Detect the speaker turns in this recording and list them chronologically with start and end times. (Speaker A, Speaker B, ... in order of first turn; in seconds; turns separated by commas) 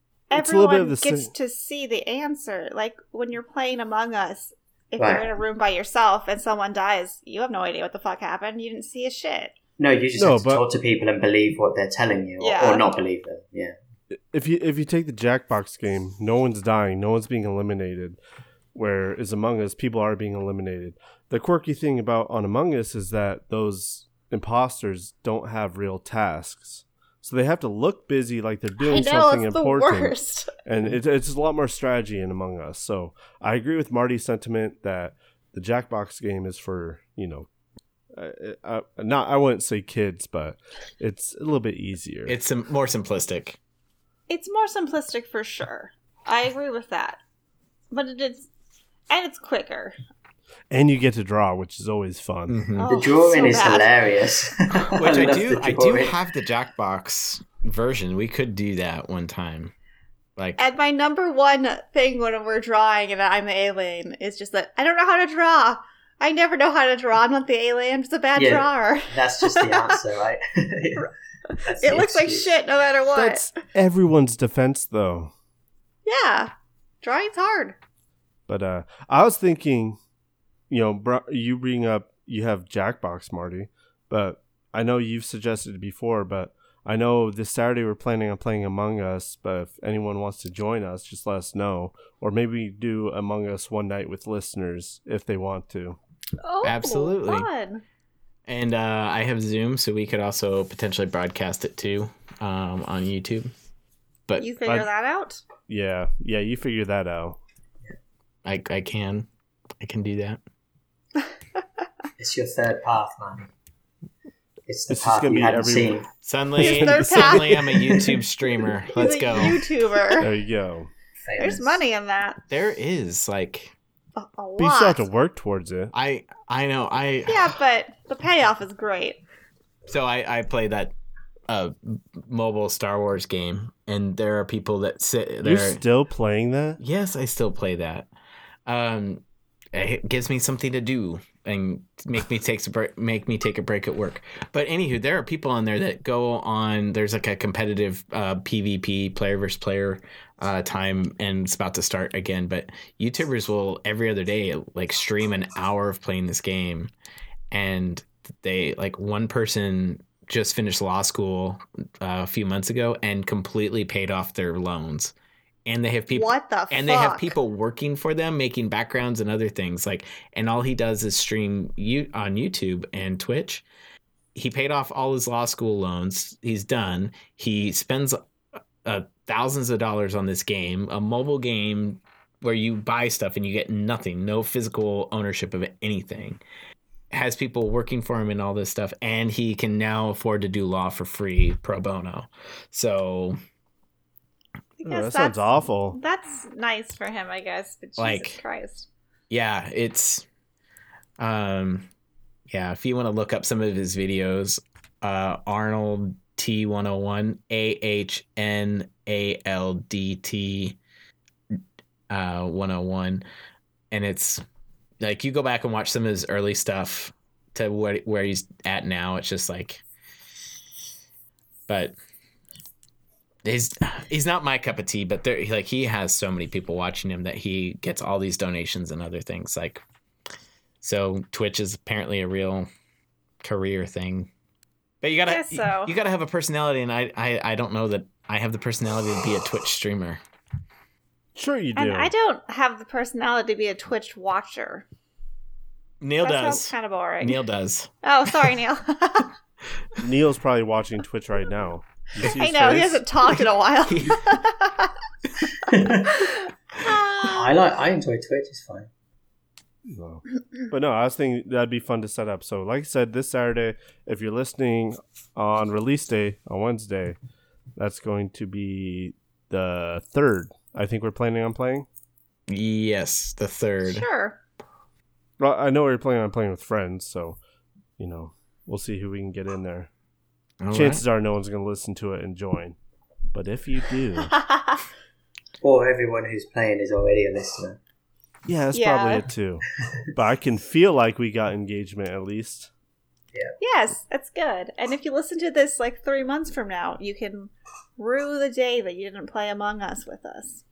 Speaker A: 0.3-9.5, Speaker B: 0.3-1.3, Speaker C: 5.0-5.3, Speaker C: 9.8-13.8, Speaker B: 10.2-10.6, Speaker A: 12.4-12.8, Speaker B: 14.3-18.2, Speaker B: 18.7-37.5, Speaker A: 28.8-30.5, Speaker B: 38.2-42.4, Speaker D: 42.3-43.6, Speaker A: 44.3-47.2, Speaker A: 47.9-48.5, Speaker A: 49.1-50.0, Speaker B: 50.7-52.6, Speaker D: 52.5-52.9, Speaker A: 52.8-53.9, Speaker C: 52.9-56.2, Speaker D: 54.7-59.7, Speaker D: 60.4-60.6, Speaker A: 60.6-70.0, Speaker C: 68.4-71.1, Speaker A: 71.5-73.5, Speaker C: 71.7-72.6, Speaker B: 73.2-75.3, Speaker A: 76.0-77.8, Speaker B: 78.5-80.0, Speaker B: 80.7-96.0, Speaker A: 96.4-97.8, Speaker D: 96.6-97.5, Speaker D: 98.5-103.5, Speaker A: 104.4-105.4, Speaker B: 105.7-107.4, Speaker D: 108.5-109.3, Speaker D: 109.8-110.4, Speaker C: 112.2-113.5, Speaker C: 114.7-116.1, Speaker B: 114.9-116.0, Speaker D: 116.2-119.6, Speaker B: 116.6-118.1, Speaker A: 116.6-117.8, Speaker A: 118.9-120.3, Speaker B: 120.2-120.9, Speaker C: 121.2-121.8, Speaker A: 121.4-122.4, Speaker D: 122.5-123.7, Speaker A: 124.2-125.0, Speaker B: 124.6-125.9, Speaker D: 125.9-127.5, Speaker A: 127.3-129.2, Speaker D: 129.9-130.9, Speaker D: 131.5-135.8, Speaker B: 135.4-136.8, Speaker D: 136.8-138.1, Speaker D: 138.7-156.9, Speaker D: 157.5-165.1, Speaker D: 165.7-173.6, Speaker A: 166.1-167.3, Speaker D: 174.3-178.2, Speaker D: 178.8-186.4, Speaker D: 187.1-193.4, Speaker A: 194.8-198.9, Speaker B: 194.8-196.0, Speaker D: 198.0-198.4, Speaker D: 199.3-200.2, Speaker D: 201.2-201.9, Speaker D: 202.5-210.8, Speaker D: 212.1-213.2, Speaker D: 213.9-214.4, Speaker D: 215.0-219.8, Speaker D: 221.7-222.0, Speaker D: 223.4-229.8, Speaker D: 230.8-232.7, Speaker D: 233.4-234.3, Speaker D: 235.0-240.2, Speaker A: 235.3-235.9, Speaker B: 241.4-242.1, Speaker A: 241.8-244.8, Speaker D: 246.0-247.9, Speaker A: 246.2-247.4, Speaker A: 248.0-249.3, Speaker B: 250.0-253.0, Speaker A: 252.2-254.9, Speaker D: 253.9-254.2, Speaker C: 255.6-256.3, Speaker A: 256.0-257.5, Speaker C: 256.9-258.9, Speaker B: 259.9-267.2, Speaker B: 267.8-271.9, Speaker D: 272.5-274.1, Speaker A: 273.9-274.4, Speaker B: 275.4-277.4, Speaker B: 278.0-279.9, Speaker D: 280.6-281.0, Speaker B: 280.7-282.8, Speaker B: 283.3-284.3, Speaker A: 284.3-284.8, Speaker C: 285.6-287.8, Speaker B: 288.5-292.7, Speaker A: 288.7-289.2, Speaker A: 293.6-300.6